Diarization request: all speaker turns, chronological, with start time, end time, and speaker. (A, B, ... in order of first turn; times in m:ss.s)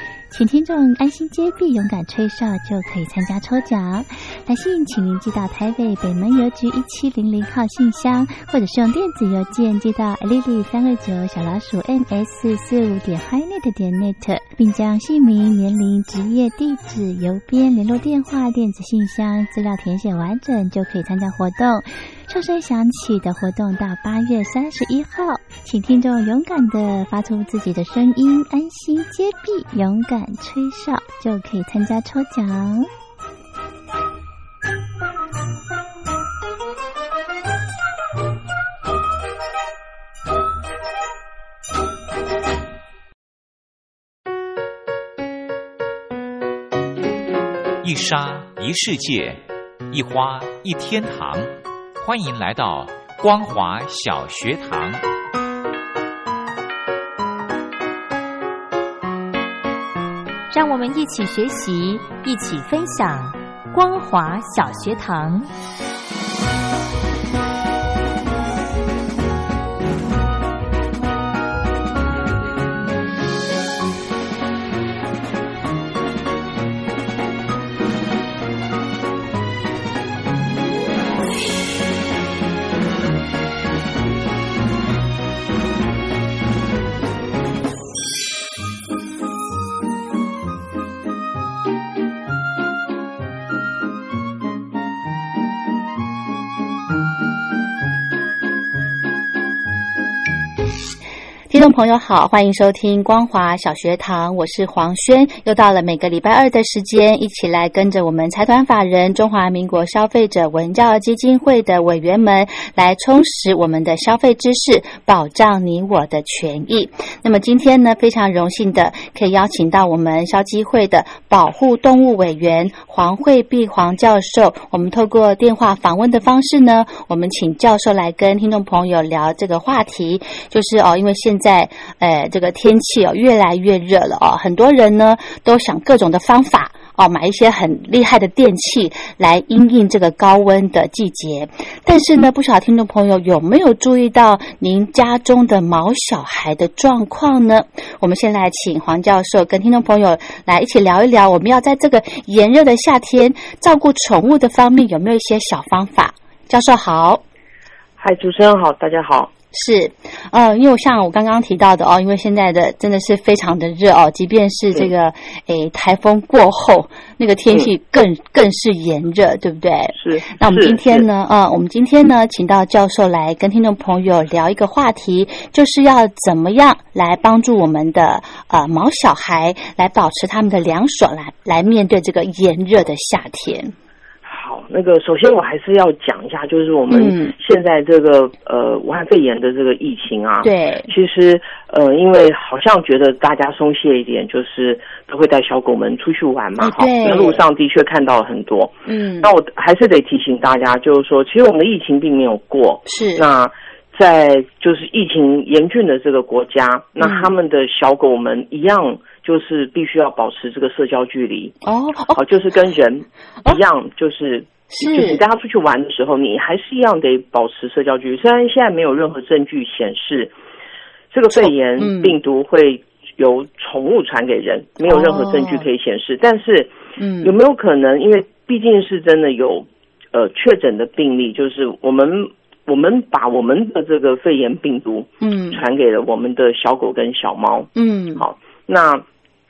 0:00.3-0:32.9 A
0:47.8-0:55.0 B
1:00.5-1:05.5 C
1:41.5-2:37.2 D
2:38.0-2:39.3 E
2:39.5-3:03.7 D
2:49.9-2:51.1 E
3:04.2-3:31.6 E
3:06.9-3:07.4 D
3:10.4-3:10.9 D
3:16.6-3:17.4 D
3:18.8-3:19.3 D
3:22.8-3:23.3 D
3:27.0-3:27.3 D
3:31.6-3:32.2 D
3:32.1-3:40.3 E
3:34.7-3:35.2 D
3:41.1-3:59.0 E
3:41.3-3:42.2 D
3:44.8-3:45.6 D
3:47.0-3:47.3 D
3:55.2-3:55.6 D
3:57.7-3:58.2 D